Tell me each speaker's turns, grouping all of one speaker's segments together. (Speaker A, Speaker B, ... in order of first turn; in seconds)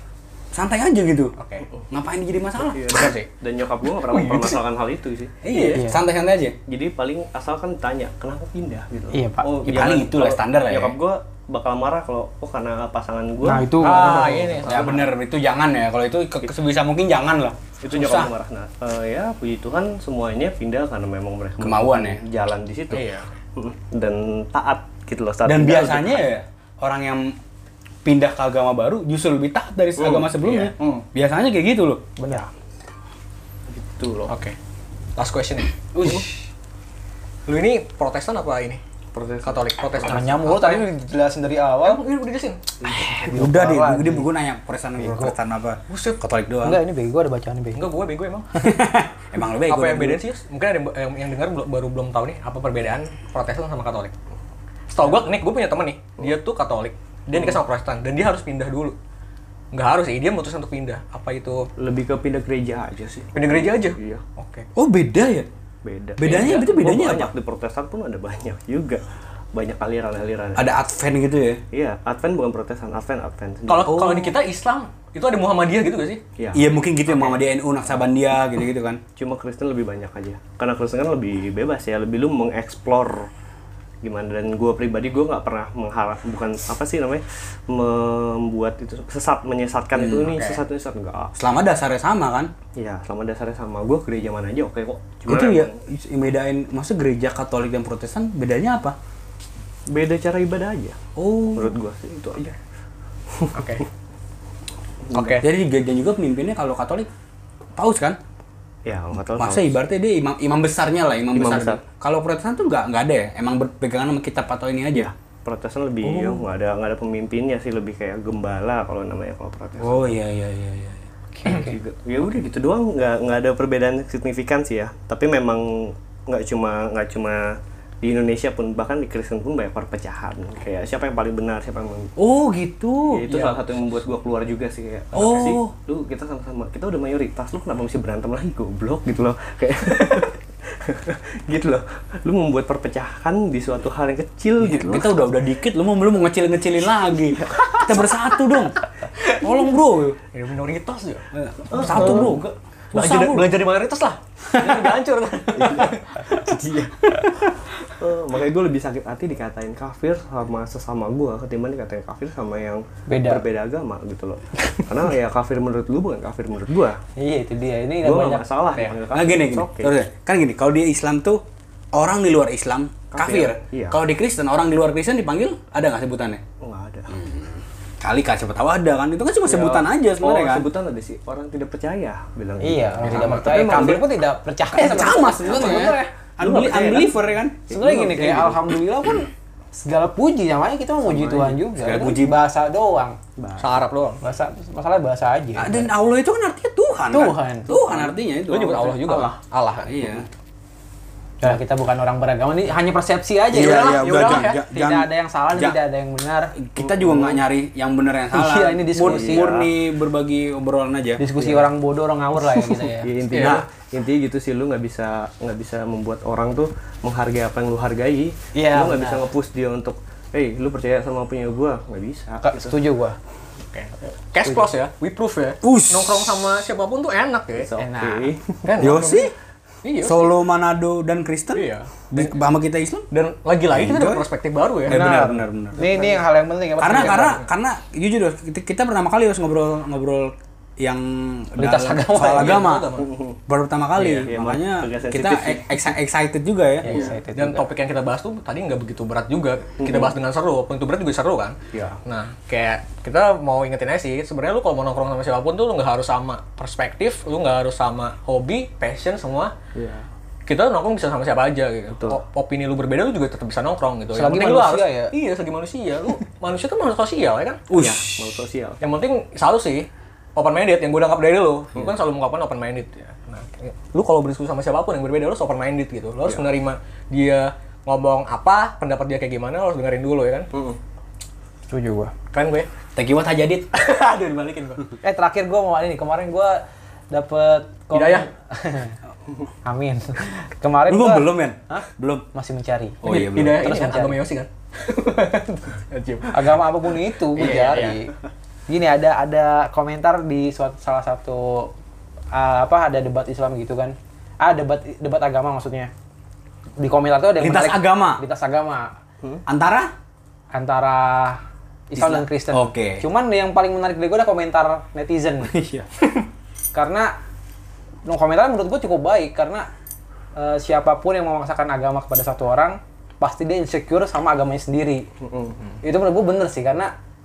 Speaker A: 0.5-1.4, 1.9-3.2, 5.4-6.6, 9.7-11.0, 13.9-18.3, 21.6-22.2, 25.4-27.4, 28.0-32.0, 43.1-46.8, 48.6-50.2, 64.8-65.5, 66.2-67.3, 70.6-71.6, 73.9-74.4, 76.5-79.0, 89.9-90.4, 91.4-92.5, 95.3-99.0, 101.2-101.8, 105.4-107.1, 107.8-108.2, 109.4-115.1, 116.0-116.4, 119.8-121.1, 132.2-133.2, 135.1-135.7, 144.6-150.2, 151.3-153.5, 154.5-154.9, 156.3-157.3, 169.1-176.4, 177.1-180.7, 184.7-187.6, 191.7-192.4, 195.6-199.3, 199.8-200.3, 203.5-205.8, 206.6-211.2, 213.3-213.6, 225.6-226.3, 228.8-229.3, 230.0-233.1, 233.7-234.2, 234.9-235.8, 236.8-242.9, 243.5-247.0, 267.7-268.3, 283.0-283.7, 290.9-292.3, 293.0-293.6, 297.6-297.9, 307.4-308.2, 309.5-309.9, 312.0-313.0, 315.5-316.2
Speaker B: 1.4-1.7, 2.9-3.2, 4.0-4.6, 5.5-5.8, 13.8-15.1, 22.9-23.3, 30.3-31.0, 34.3-34.6, 35.2-36.4, 37.5-38.8, 39.4-40.9, 41.8-42.7, 45.9-46.2, 47.8-48.5, 49.6-54.1, 54.9-59.0, 59.7-61.7, 63.3-64.7, 66.2-66.8, 73.7-76.2, 77.1-77.4, 90.3-90.6, 103.5-103.8, 105.1-105.5, 133.3-133.7, 150.3-156.2, 183.0-183.5, 193.6-194.2, 198.4-200.2, 203.5-204.6, 213.3-213.6, 223.7-227.7, 228.6-229.3, 229.8-230.3, 231.5-232.4, 233.1-235.3, 236.8-237.4, 242.2-243.1, 244.0-244.3, 247.3-259.5, 260.5-267.6, 268.8-280.5, 282.3-282.7, 283.7-284.9, 287.9-288.3, 293.1-296.6, 297.3-298.1
Speaker C: 2.6-5.4, 6.7-14.9, 17.8-26.3, 30.0-30.3, 33.7-34.3, 39.1-40.1, 42.8-43.3, 57.3-57.6, 61.8-64.2, 65.8-70.7, 71.7-74.0, 76.4-76.7, 79.2-83.3, 84.0-91.4, 92.8-95.7, 99.9-101.0, 101.5-102.6, 103.3-103.6, 105.1-105.4, 108.9-109.8, 111.3-111.8, 114.9-120.1, 121.5-132.1, 133.1-145.4, 151.7-152.4, 155.6-156.6, 157.8-167.0, 168.0-170.0, 173.1-174.0, 176.6-177.2, 179.4-184.1, 185.2-187.2, 187.7-188.7, 191.0-191.6, 193.4-193.8, 206.8-207.4, 209.0-209.7, 211.4-211.7, 212.4-222.8, 227.6-228.7, 243.0-243.4, 244.2-245.6, 246.9-247.2, 249.8-250.1, 251.7-252.0, 259.8-260.1, 261.9-262.2, 267.7-268.8, 325.2-325.6
Speaker D: 5.7-6.0, 9.1-9.6, 13.4-14.5, 32.2-32.5, 40.0-42.0, 43.2-44.3, 45.0-45.4, 46.6-47.9, 121.4-121.8, 163.1-163.4, 167.2-168.9, 182.6-186.0, 187.7-193.2, 194.2-195.9, 197.1-197.8, 201.4-206.6, 208.3-209.5, 211.2-213.1, 218.5-219.3, 222.4-223.2, 227.8-228.3, 234.9-237.4, 241.6-242.6, 246.8-247.7, 264.1-265.1, 281.7-282.1, 285.0-289.0, 289.6-294.2, 296.3-298.1, 298.7-301.7, 302.3-305.9, 306.8-308.9, 310.5-315.5, 316.7-317.1, 318.1-319.7, 320.4-325.1, 325.8-326.9